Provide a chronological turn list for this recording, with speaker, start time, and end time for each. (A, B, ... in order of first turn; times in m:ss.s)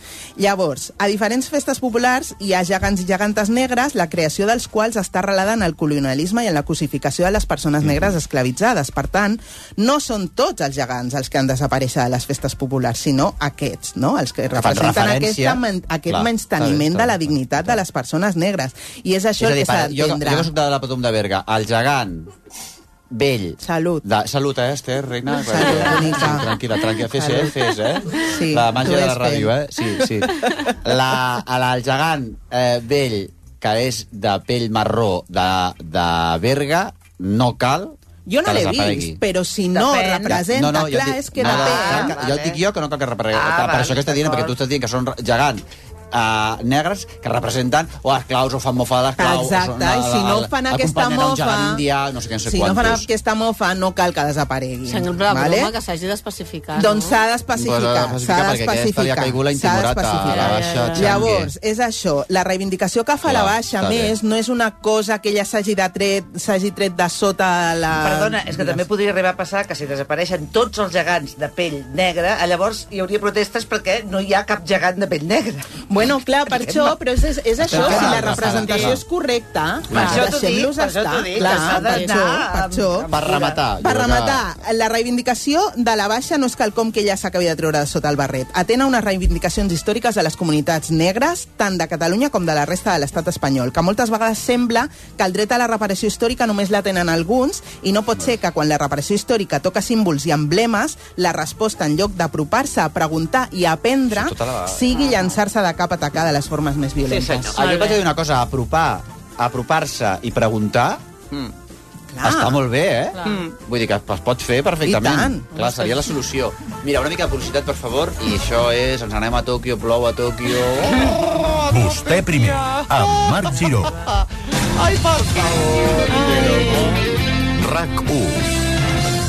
0:00.4-0:20.5 A
0:07.8-0:08.1 B
0:14.5-0:17.8 B
0:19.4-0:22.3 B
0:23.1-0:39.2 B
0:23.6-0:24.0 A
0:25.3-0:27.5 A
0:28.2-0:29.5 A
0:38.2-0:42.2 A
0:39.8-0:40.3 C
0:40.2-0:53.1 B
0:41.4-0:42.6 C
0:43.3-0:44.5 C
0:49.2-0:51.8 A
0:52.4-0:55.7 A
0:54.9-0:57.1 D
0:56.7-1:08.8 A
0:57.5-1:01.5 B
1:00.3-1:01.1 D
1:03.2-1:04.1 B
1:07.9-1:15.7 C
1:15.9-1:47.5 A
1:16.4-1:17.0 C
1:17.6-1:19.0 B
1:17.8-1:18.4 C
1:19.9-1:20.2 B
1:19.9-1:23.6 C
1:21.4-1:22.1 D
1:23.1-1:24.4 B
1:44.1-1:44.9 B
1:47.1-1:48.0 C
1:47.4-1:51.0 B
1:52.1-1:52.6 A
1:52.2-2:01.4 B
1:54.8-1:55.5 A
2:01.7-2:03.9 E
2:04.8-2:06.9 B
2:07.6-2:08.6 E